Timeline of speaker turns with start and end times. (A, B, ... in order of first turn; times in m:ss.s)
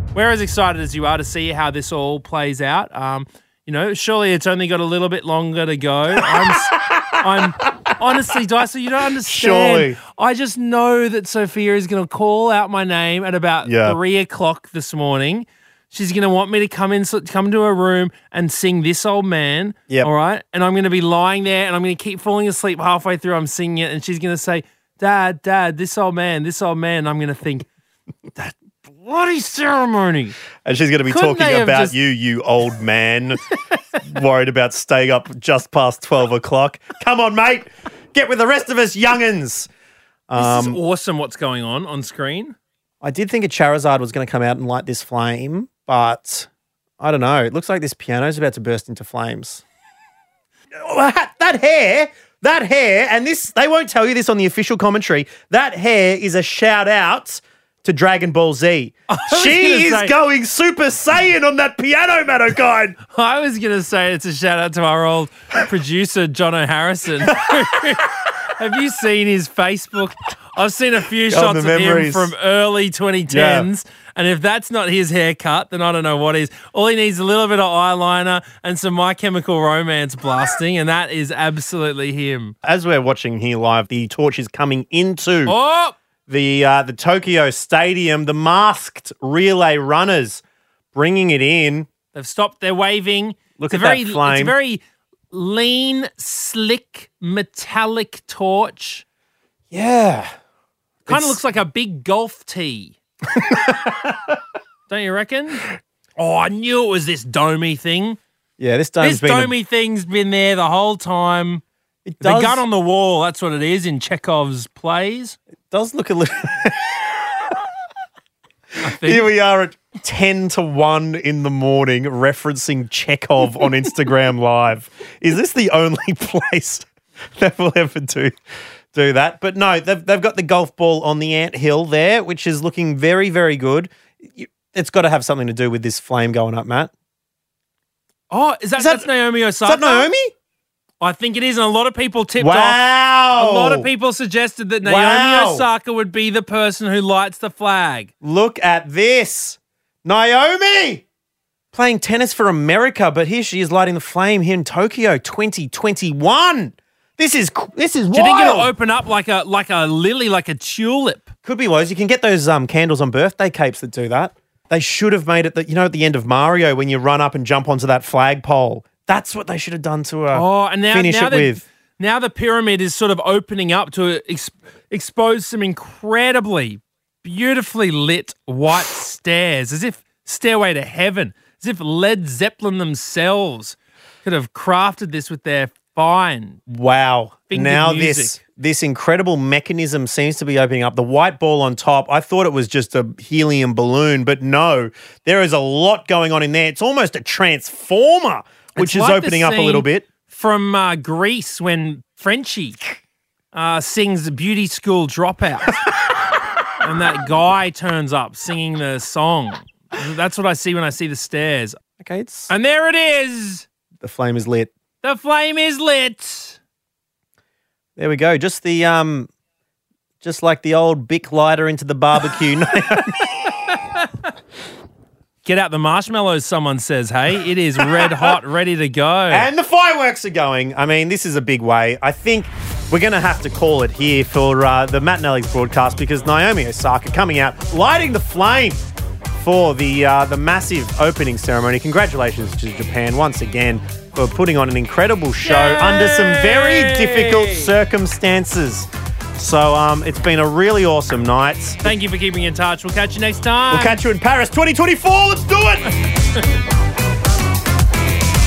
0:00.1-0:27.7 A
0:06.2-0:07.2 B
0:09.2-0:10.0 B
0:13.6-0:14.0 B
0:28.4-0:30.4 A
0:30.6-0:33.4 B
0:31.1-0:32.0 A
0:34.0-0:39.7 B
0:40.3-0:40.8 B
0:40.4-0:42.6 A
0:43.0-0:46.5 B
0:47.0-0:49.6 B
0:50.7-1:03.0 B
0:59.1-1:00.1 A
1:03.1-1:22.6 A
1:11.3-1:12.3 B
1:13.3-1:13.7 B
1:22.6-1:25.6 B
1:25.4-1:26.0 A
1:26.3-1:30.4 B
1:30.9-1:31.9 B
1:32.1-1:39.0 A
1:33.6-1:34.6 B
1:39.7-1:40.3 B
1:41.0-1:43.0 A
1:41.1-1:41.4 B
1:43.4-1:44.4 B
1:44.9-1:45.7 A
1:46.2-1:48.2 A
1:48.6-1:49.5 B
1:49.0-1:51.6 A
1:52.0-1:52.6 B
1:52.2-1:55.4 A
1:55.7-1:57.1 B
1:58.8-1:59.3 A
1:58.8-2:08.4 B
2:08.9-2:16.9 B
2:18.3-2:20.1 A
2:18.8-2:19.1 B
2:19.6-2:20.3 B
2:21.0-2:28.1 A
2:22.4-2:23.9 B
2:24.8-2:25.7 B
2:28.2-2:31.0 B
2:31.7-2:38.7 B
2:38.1-2:41.3 A
2:41.4-2:51.6 B
2:50.3-3:06.6 A
3:06.7-3:20.1 B
3:07.5-3:08.4 A
3:18.7-3:22.8 A
3:23.5-3:25.8 A
3:26.8-3:31.8 A
3:32.0-3:32.5 B
3:32.5-3:33.7 A
3:34.0-3:34.7 B
3:35.0-3:36.6 A
3:38.0-3:39.3 B
3:40.2-3:43.4 B
3:45.4-3:49.5 A
3:47.9-3:48.3 B
3:49.3-4:11.8 B
4:05.4-4:07.7 A
4:11.8-4:14.0 A
4:13.7-4:15.9 B